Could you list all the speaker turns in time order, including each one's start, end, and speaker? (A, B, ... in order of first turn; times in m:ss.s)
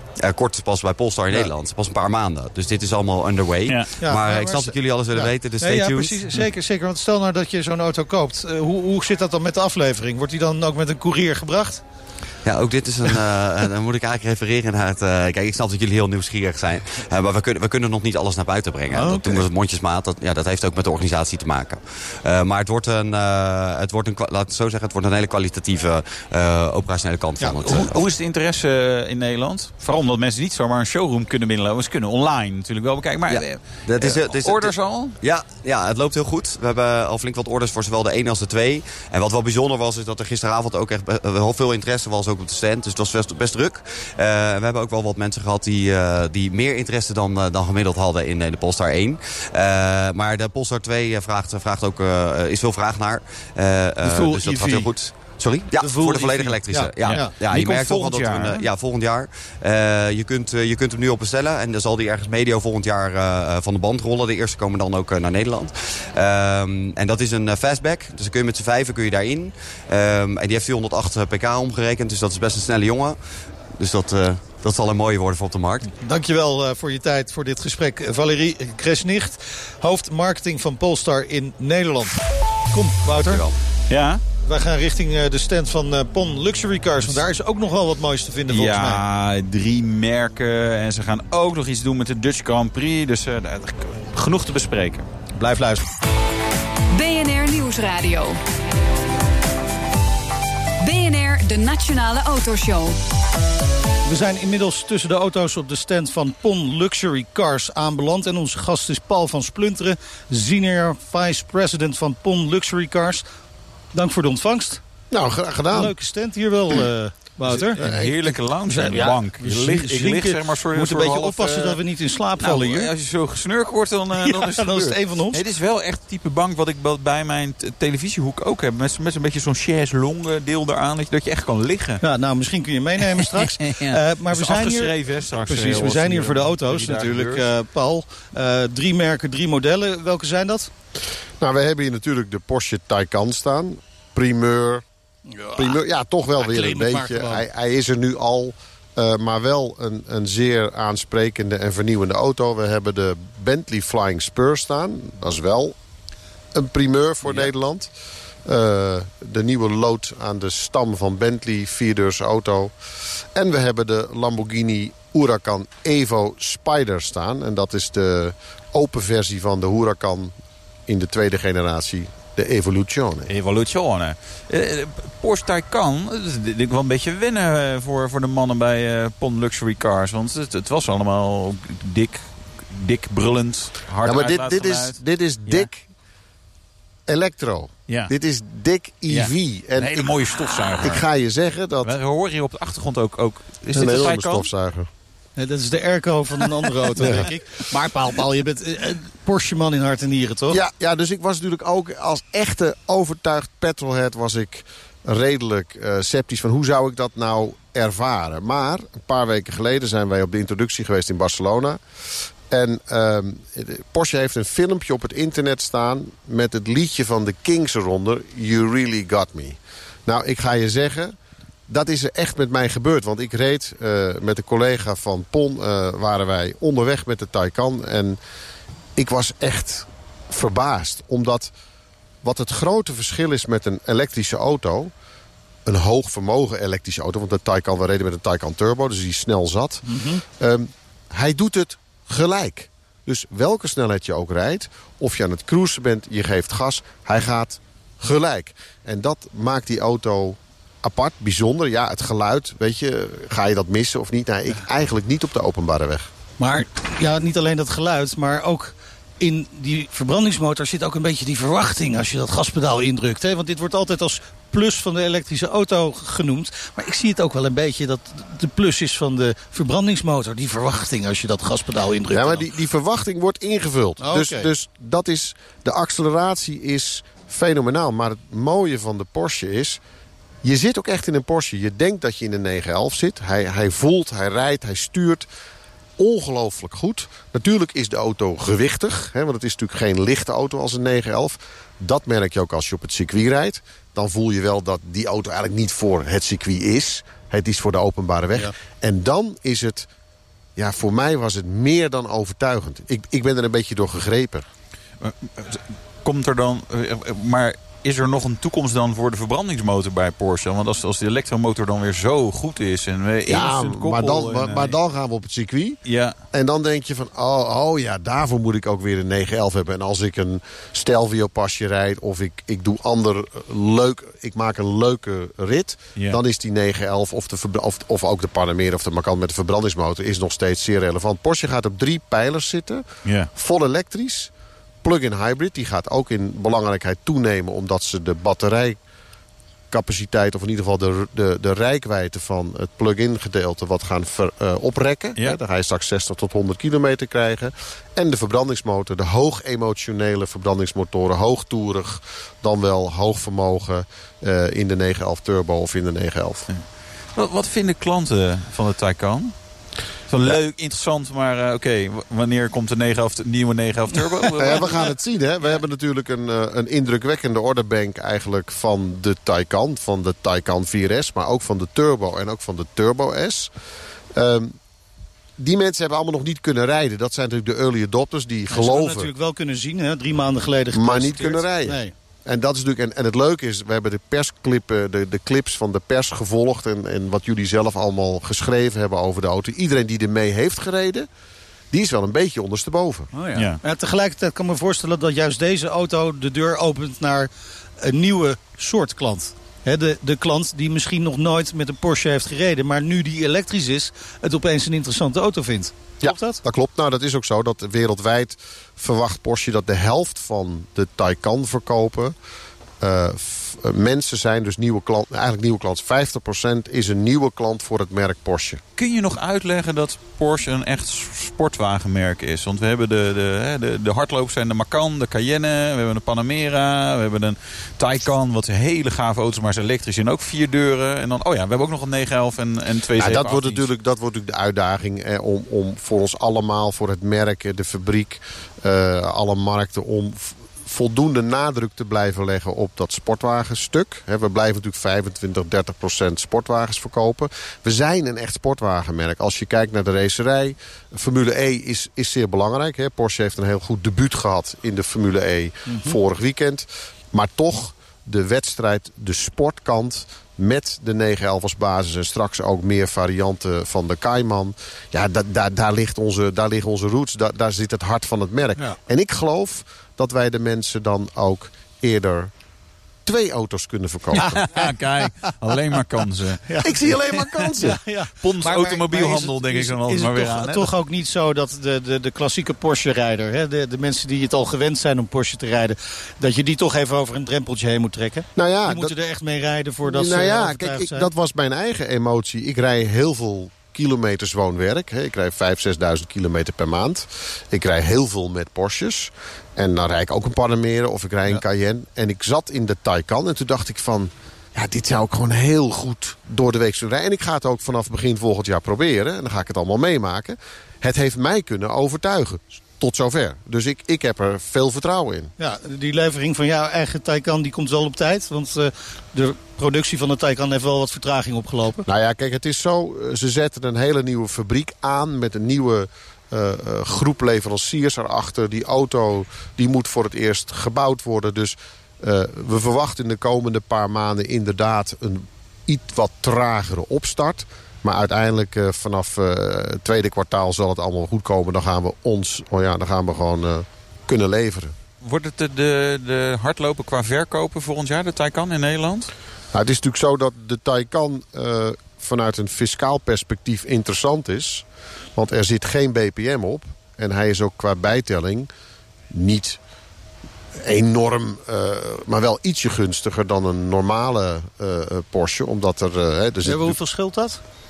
0:00.2-0:06.2 A
0:04.0-0:11.8 B
0:12.4-0:28.1 A
0:18.9-0:19.4 B
0:27.4-0:27.9 B
0:27.7-0:35.2 C
0:33.3-1:13.2 A
0:54.0-0:54.9 B
0:55.8-0:57.3 B
0:57.0-0:58.7 C
1:13.8-1:15.9 A
1:16.0-1:22.1 B
1:22.7-1:23.4 B
1:23.2-1:23.6 A
1:23.9-1:24.2 C
1:24.4-1:29.0 B
1:28.5-1:35.1 C
1:35.4-1:35.8 B
1:36.9-1:38.4 D
1:40.8-1:43.0 D
1:44.1-1:53.2 B
1:53.9-1:54.8 B
1:55.1-1:55.9 E
1:55.7-1:57.8 B
1:57.5-2:01.8 C
1:57.8-1:58.3 E
1:58.7-2:02.9 B
2:02.4-2:12.0 C
2:04.2-2:05.4 B
2:12.0-2:20.7 B
2:13.2-2:17.4 C
2:21.4-2:24.8 E
2:25.3-2:25.8 B
2:25.5-2:35.8 E
2:26.4-2:27.5 B
2:36.5-2:37.9 E
2:38.4-2:50.4 E
2:50.9-2:53.3 E
2:53.3-3:05.7 C
3:04.0-3:05.9 E
3:07.1-3:10.2 E
3:09.1-3:11.0 C
3:10.8-3:12.0 E
3:11.8-3:14.5 C
3:13.7-3:14.9 E
3:13.7-3:14.1 B
3:15.4-3:20.6 B
3:17.0-3:17.3 E
3:20.5-3:31.8 E
3:32.5-3:41.2 E
3:41.7-3:48.2 E
3:49.0-3:51.5 E
3:52.2-3:54.9 E
3:55.7-4:16.1 E
3:59.8-4:00.2 B
4:16.4-4:32.5 B
4:32.1-4:39.8 E
4:34.0-4:34.5 B
4:40.4-4:45.3 E
4:46.0-4:59.9 E
5:00.6-5:04.5 E
5:05.0-5:14.8 C
5:13.3-5:15.8 E
5:15.9-5:16.2 C
5:16.3-5:34.3 E
5:33.0-5:33.3 C
5:34.8-5:38.8 E
5:39.7-5:56.5 E
5:57.2-5:59.3 C
6:00.1-6:04.9 C
6:04.4-6:13.5 E
6:14.1-6:14.6 E
6:15.4-6:19.1 E
6:18.5-6:21.9 B
6:20.7-6:31.1 E
6:31.7-6:33.1 E
6:33.1-6:46.4 B
6:46.0-6:52.2 E
6:52.8-6:58.6 E
6:58.8-7:13.7 C
7:13.0-7:52.3 E
7:35.7-7:36.0 B
7:53.0-7:54.5 E
7:54.2-7:55.3 B
7:54.2-7:56.9 C
7:56.5-8:11.1 B
7:56.6-7:57.8 E
7:57.6-8:00.7 C
8:08.4-8:08.9 E
8:09.9-8:35.3 E
8:35.4-8:41.8 B
8:41.9-9:04.8 E
9:05.0-9:09.1 C
9:09.5-9:18.5 E
9:19.1-9:19.6 E
9:20.6-9:26.8 E
9:26.4-9:27.4 B